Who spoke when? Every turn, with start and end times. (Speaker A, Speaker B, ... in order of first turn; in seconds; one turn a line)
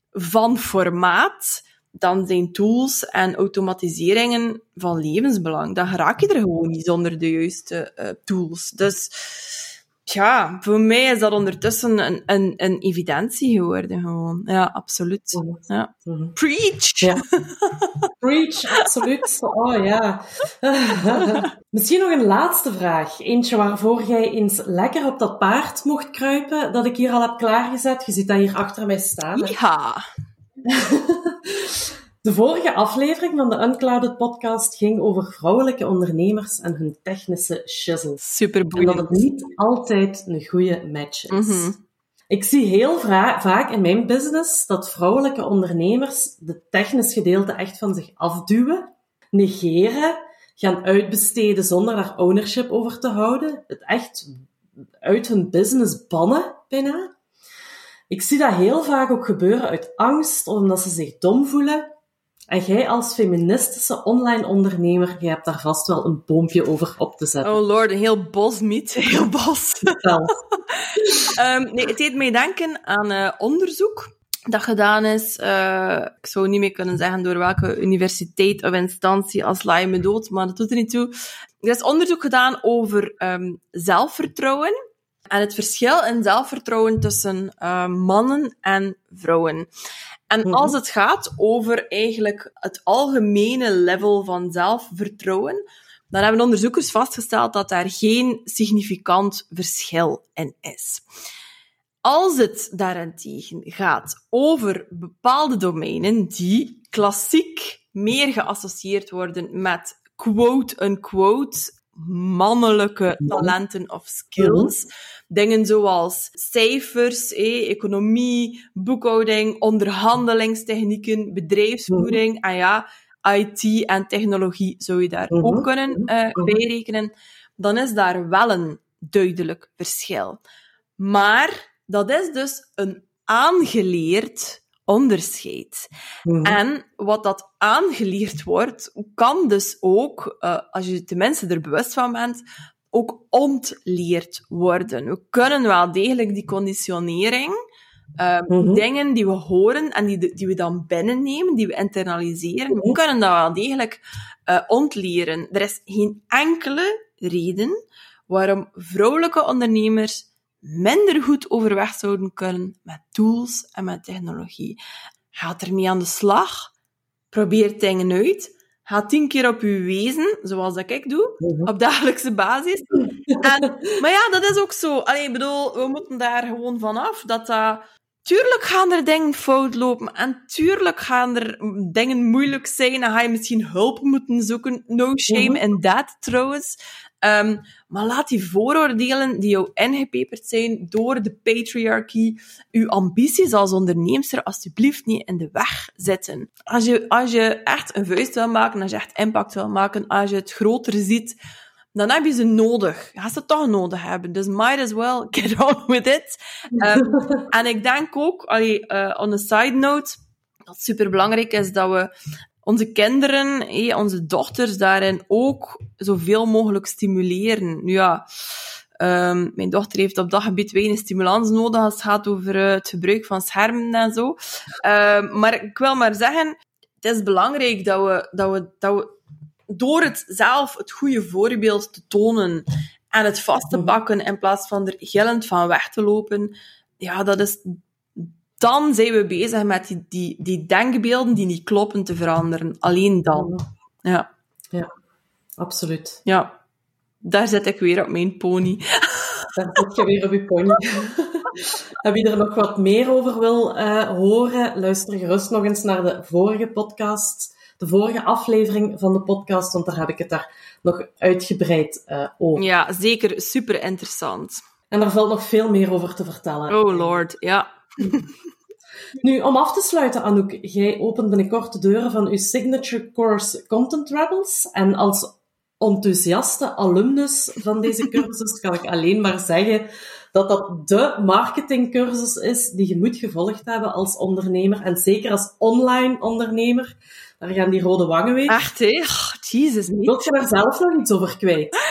Speaker A: 0.1-18.1
Speaker B: 15.3-16.3
Speaker B: 18.2-29.6
Speaker A: 21.0-21.5
Speaker A: 29.3-30.0
Speaker B: 30.6-38.2
Speaker A: 38.2-39.3
Speaker B: 38.8-41.7
Speaker A: 41.3-41.8
Speaker B: 42.3-54.3
Speaker B: 55.0-57.1
Speaker B: 58.1-61.9
Speaker B: 62.5-67.6
Speaker A: 67.4-70.0
Speaker B: 69.8-70.3
Speaker A: 70.5-81.1
Speaker B: 71.0-71.3
Speaker A: 81.6-84.7
Speaker A: 85.3-89.7
Speaker A: 90.3-101.0
Speaker B: 90.5-90.7
Speaker A: 102.0-130.4
Speaker B: 113.2-113.5
Speaker B: 114.4-114.7
Speaker B: 121.9-122.2
Speaker B: 125.3-126.5
Speaker A: 131.0-135.9
Speaker B: 136.2-136.6
Speaker A: 136.4-142.4
Speaker A: 142.9-147.5
Speaker A: 148.2-157.8
Speaker B: 148.5-148.8
Speaker A: 158.3-164.8
Speaker A: 165.3-166.7
Speaker A: 167.3-201.4
Speaker B: 171.4-171.7
Speaker B: 173.3-173.8
Speaker B: 185.3-185.6
Speaker A: 201.9-212.1
Speaker B: 206.8-207.4
Speaker A: 212.6-218.2
Speaker A: 219.0-229.1
Speaker A: 229.7-244.3
Speaker B: 243.3-243.6
Speaker B: 245.6-246.2
Speaker A: 246.2-246.5
Speaker A: 247.2-249.8
Speaker B: 249.6-262.6
Speaker A: 262.6-264.6
Speaker B: 264.9-267.2
Speaker A: 266.7-268.3
Speaker B: 269.2-288.6
Speaker A: 288.5-290.3
Speaker B: 290.1-291.8